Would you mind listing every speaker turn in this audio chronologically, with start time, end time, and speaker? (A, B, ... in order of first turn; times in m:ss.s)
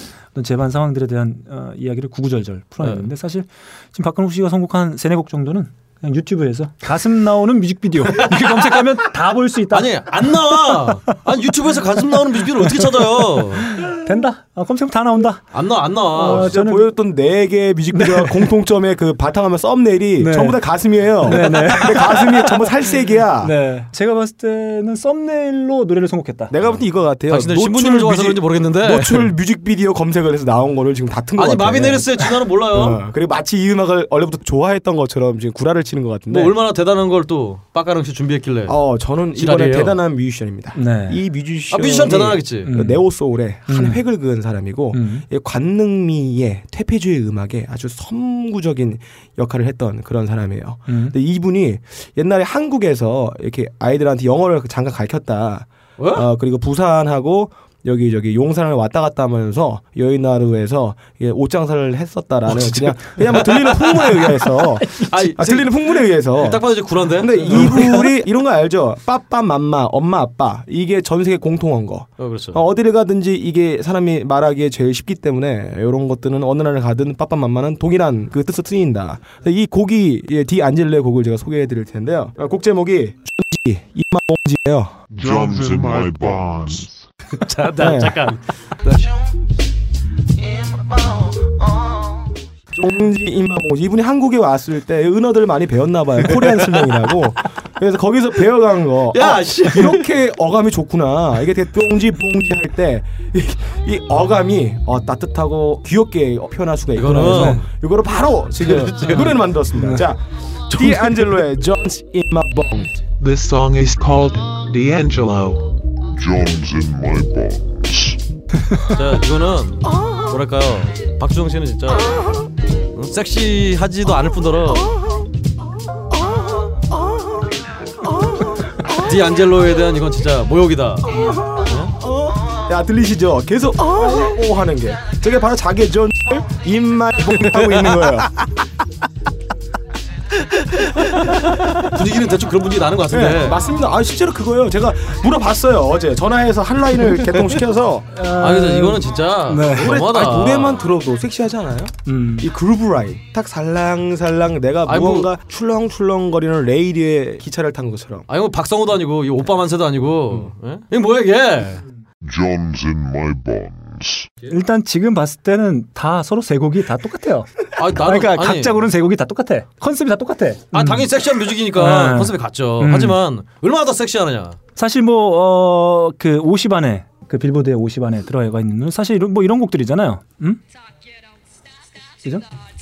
0:00.3-0:11.2 A
0:02.8-0:03.1 B
0:08.1-0:08.9 B
0:09.7-0:13.8 B
0:12.4-0:15.4 A
0:15.5-0:16.5 B
0:16.1-0:16.9 A
0:16.1-0:23.5 C
0:17.9-0:18.6 A
0:20.2-0:20.6 A
0:21.2-0:22.7 A
0:23.4-0:26.6 A
0:26.5-0:36.5 C
0:27.3-0:29.3 B
0:31.4-0:33.0 B
0:36.3-0:38.8 B
0:38.7-1:25.0 C
0:39.4-0:40.0 B
0:40.7-0:41.2 A
0:41.7-0:42.7 B
0:42.6-0:43.0 A
0:43.7-0:44.0 A
0:44.9-0:45.2 A
0:50.9-0:51.1 A
0:56.0-0:56.3 B
1:02.6-1:04.4 B
1:04.8-1:05.3 A
1:05.0-1:08.0 B
1:07.5-1:08.1 A
1:12.2-1:12.6 B
1:25.1-1:27.0 D
1:25.2-1:26.9 E
1:27.3-1:29.1 B
1:27.8-1:28.3 C
1:30.8-1:31.2 C
1:32.7-1:52.9 C
1:36.4-1:37.1 B
1:39.1-1:40.1 B
1:47.0-1:47.7 B
1:47.1-1:47.6 A
1:48.6-1:49.5 B
1:49.7-1:50.0 A
1:50.8-1:51.2 B
1:53.2-1:55.8 E
1:56.1-1:58.2 D
1:58.8-2:02.4 B
2:02.9-2:05.0 B
2:04.9-2:05.2 C
2:06.1-2:09.2 C
2:08.9-2:11.9 B
2:11.1-2:18.6 C
2:17.7-2:18.1 B
2:20.4-2:23.6 B
2:23.1-2:28.0 C
2:28.1-2:29.9 A
2:28.4-2:30.9 B
2:29.7-2:38.3 C
2:32.0-2:32.5 A
2:34.9-2:35.3 B
2:38.3-2:41.8 B
2:42.2-2:44.3 D
2:44.5-2:51.1 A
2:47.8-2:48.8 B
2:50.7-2:54.6 B
2:51.7-2:53.2 A
2:54.8-3:00.6 A